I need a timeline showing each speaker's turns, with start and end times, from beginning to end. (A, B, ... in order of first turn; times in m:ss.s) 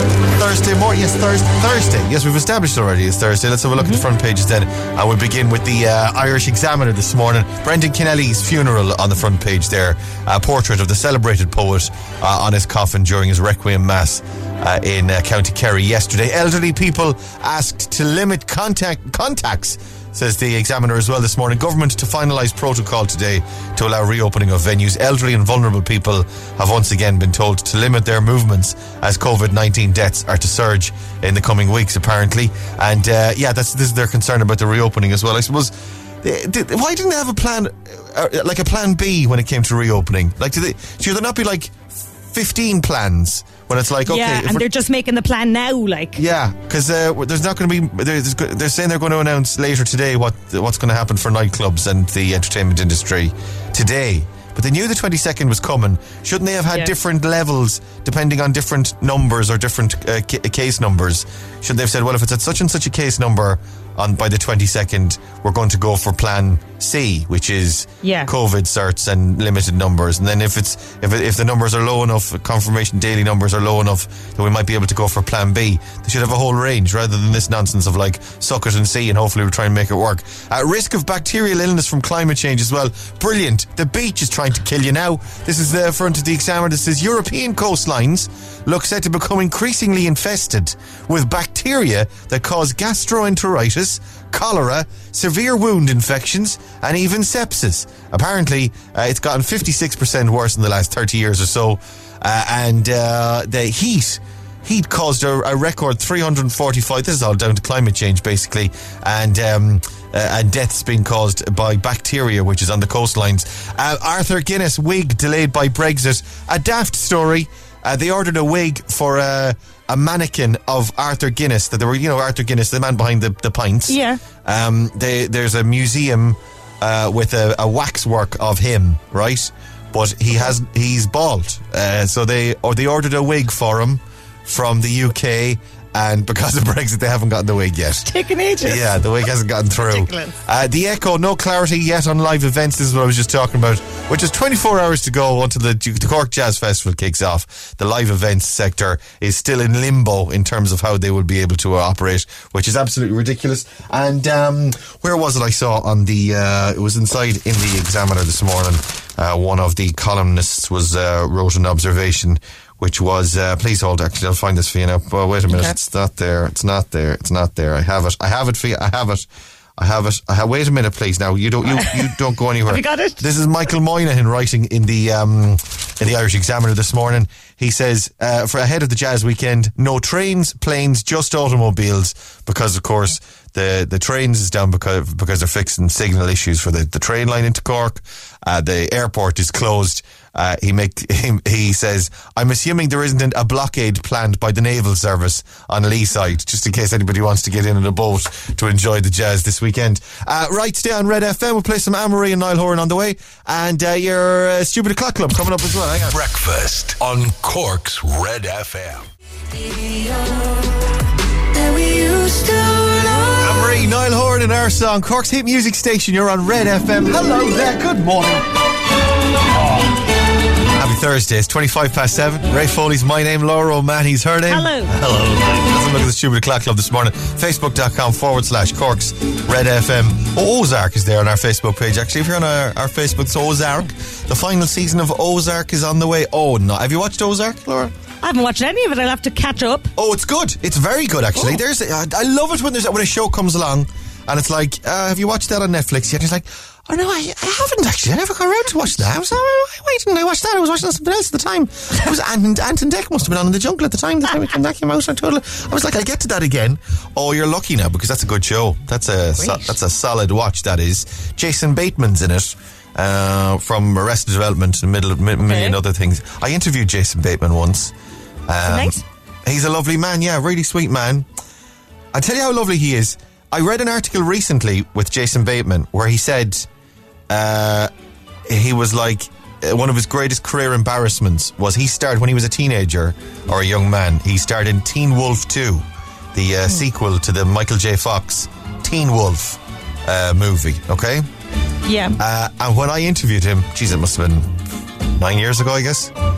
0:00.3-0:44.6 A
0:03.8-0:04.0 B
0:44.0-0:46.2 B
0:46.2-2:49.2 A
1:08.0-1:08.3 B
2:03.9-2:04.2 B
2:18.0-2:19.0 B
2:19.8-2:20.4 B
2:49.8-3:26.2 A
2:51.7-2:52.0 B
2:52.7-2:53.2 B
3:26.1-3:29.1 C
3:33.4-3:38.5 A
3:39.5-3:39.9 A
3:40.7-3:57.9 A
3:44.5-3:44.9 B
3:58.2-3:59.9 B
4:00.0-4:27.9 A
4:19.4-4:19.8 B
4:25.4-4:25.8 B
4:28.5-4:31.3 A
4:28.7-4:29.0 B
4:32.1-4:36.7 A
4:37.3-4:37.9 A
4:38.5-4:51.3 A
4:51.8-4:52.2 B
4:52.2-4:54.5 A
4:55.2-4:56.1 A